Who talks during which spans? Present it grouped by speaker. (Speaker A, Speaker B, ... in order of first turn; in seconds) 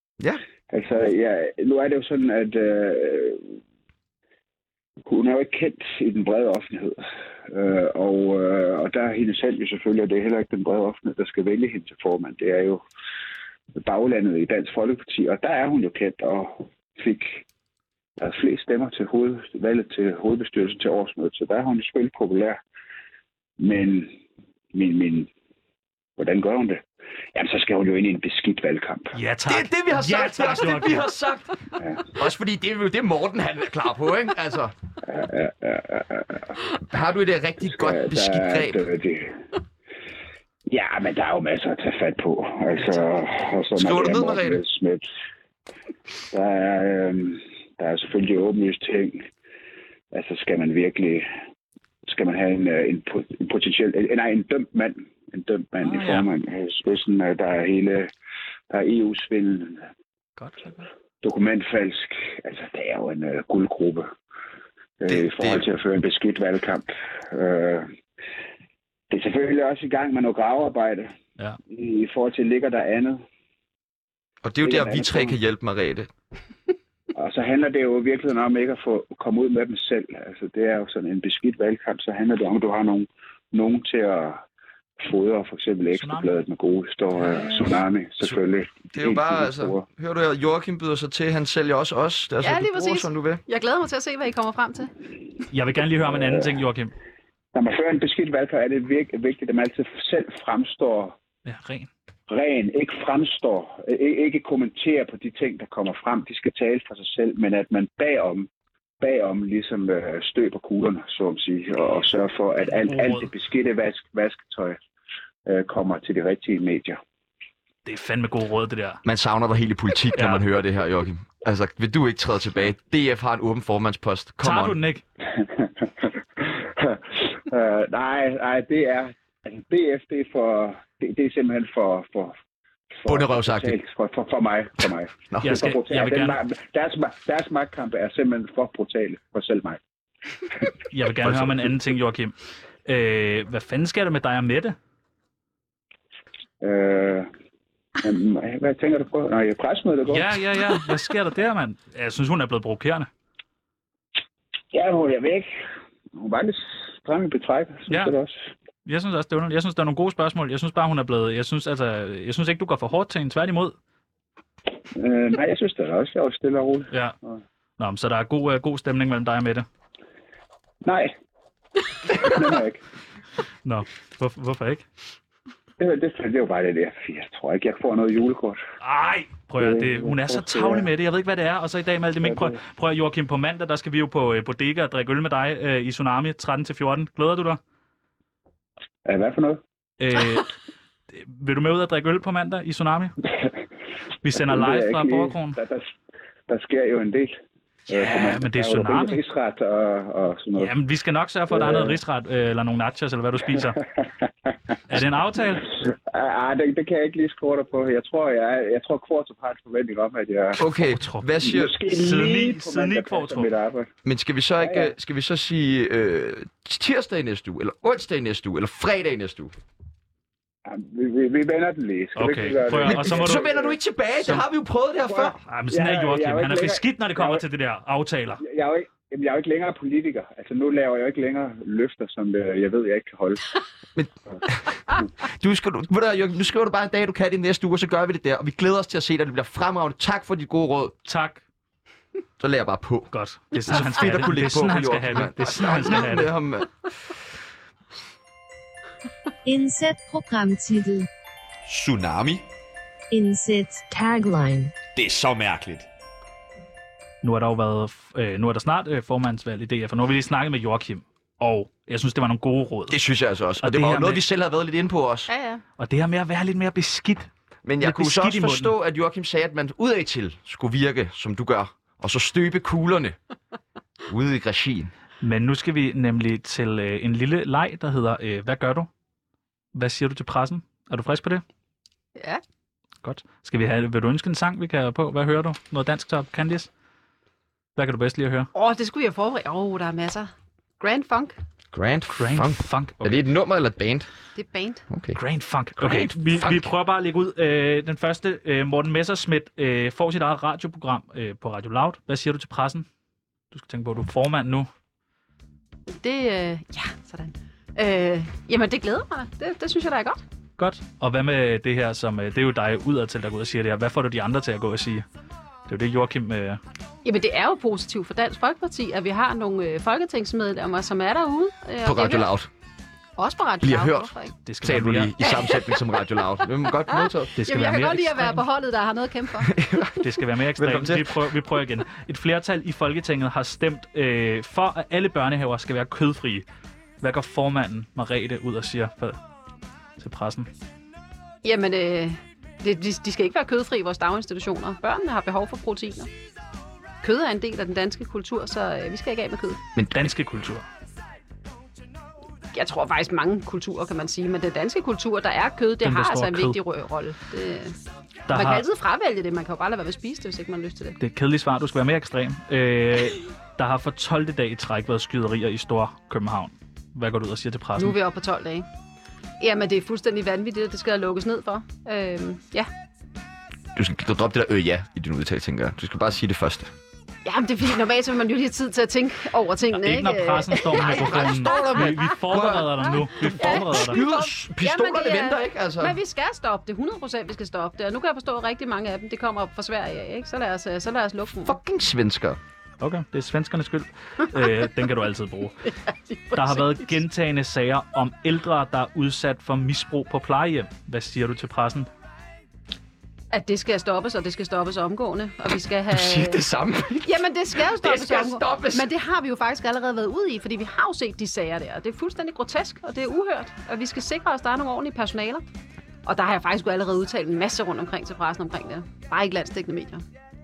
Speaker A: 0.7-3.6, 5.1-12.8, 13.8-17.4, 18.2-22.6, 23.6-24.2, 24.7-25.3, 26.2-26.8, 27.3-29.1, 31.8-32.2, 35.0-36.6, 37.8-39.4, 40.7-45.1, 46.3-49.3, 50.1-51.3, 52.1-58.1, 58.7-59.9, 61.2-64.1, 65.0-67.9, 69.1-71.1, 71.7-73.2, 74.6-75.4, 77.1-84.4, 85.0-89.8, 96.1-96.4, 97.5-101.2, 102.3-108.5, 109.0-114.8, 115.5-117.0, 125.2-132.4, 133.0-139.8, 146.6-147.3, 148.0-150.6, 154.7-155.5, 156.2-158.5, 164.9-166.9, 170.8-171.1, 172.1-172.8, 175.8-178.6, 179.6-180.9, 182.2-182.6, 189.1-189.6, 194.4-195.9, 196.5-197.4, 197.9-200.8, 201.5-202.0, 205.8-210.7, 211.4-213.9, 214.6-214.9, 220.7-223.8, 225.1-227.4, 228.4-233.6
Speaker B: 29.1-31.1, 55.8-56.3, 60.4-60.9, 85.9-86.3, 95.5-96.9, 101.5-101.9, 112.7-113.3, 117.8-119.0, 120.2-120.4, 124.4-125.0, 135.4-136.4, 140.9-142.3, 142.9-144.8, 150.1-153.1, 157.9-158.1, 158.9-163.8, 167.8-169.7, 173.7-174.8, 178.8-187.6, 190.0-190.6, 191.1-193.1, 194.2-195.6, 197.9-199.2, 200.6-203.8, 204.9-205.7, 210.7-213.5, 222.2-223.5, 224.2-224.5, 225.5-228.4, 241.1-241.4, 243.1-246.3, 257.2-263.0, 263.6-264.2, 265.8-268.7, 275.2-278.9, 279.7-281.4, 283.0-286.7, 287.8-288.5, 292.1-293.2, 295.1-302.9, 303.5-304.7, 310.6-315.1, 315.7-316.6, 324.5-325.1, 327.4-328.4, 329.9-336.4, 337.0-339.2, 340.0-340.5, 349.9-350.7, 355.8-356.6, 358.3-358.6, 361.0-367.9, 379.8-384.0, 392.8-395.7, 396.4-401.9
Speaker C: 29.5-34.7, 36.8-38.8, 43.8-44.6, 65.1-65.6, 74.4-76.1, 88.9-93.4, 119.0-124.8, 133.1-133.8, 135.3-135.6, 141.2-141.7, 210.6-211.7, 214.1-219.5, 222.8-225.3, 234.0-240.9, 242.4-243.1, 243.7-246.9, 251.7-252.4, 255.0-255.8, 262.9-265.3, 267.6-273.2, 274.1-274.9, 291.7-294.1, 294.9-295.2, 295.8-296.7, 321.8-322.5, 323.6-327.3, 329.4-330.1, 330.6-331.2, 349.8-350.1, 373.8-376.7, 380.8-386.0, 391.4-392.4, 405.9-408.9
Speaker D: 92.4-94.9, 265.3-265.6, 288.5-291.4, 294.4-294.8, 305.9-310.2, 317.1-322.3, 323.2-324.3, 325.2-325.8, 326.9-329.5, 341.4-346.1, 347.0-349.6, 352.5-357.8, 358.3-361.0, 367.8-368.7, 369.4-372.7, 377.2-382.2, 383.2-391.6, 395.7-396.9, 403.3-406.4, 407.0-415.4, 416.1-420.0
Speaker E: 249.4-251.1, 253.1-254.7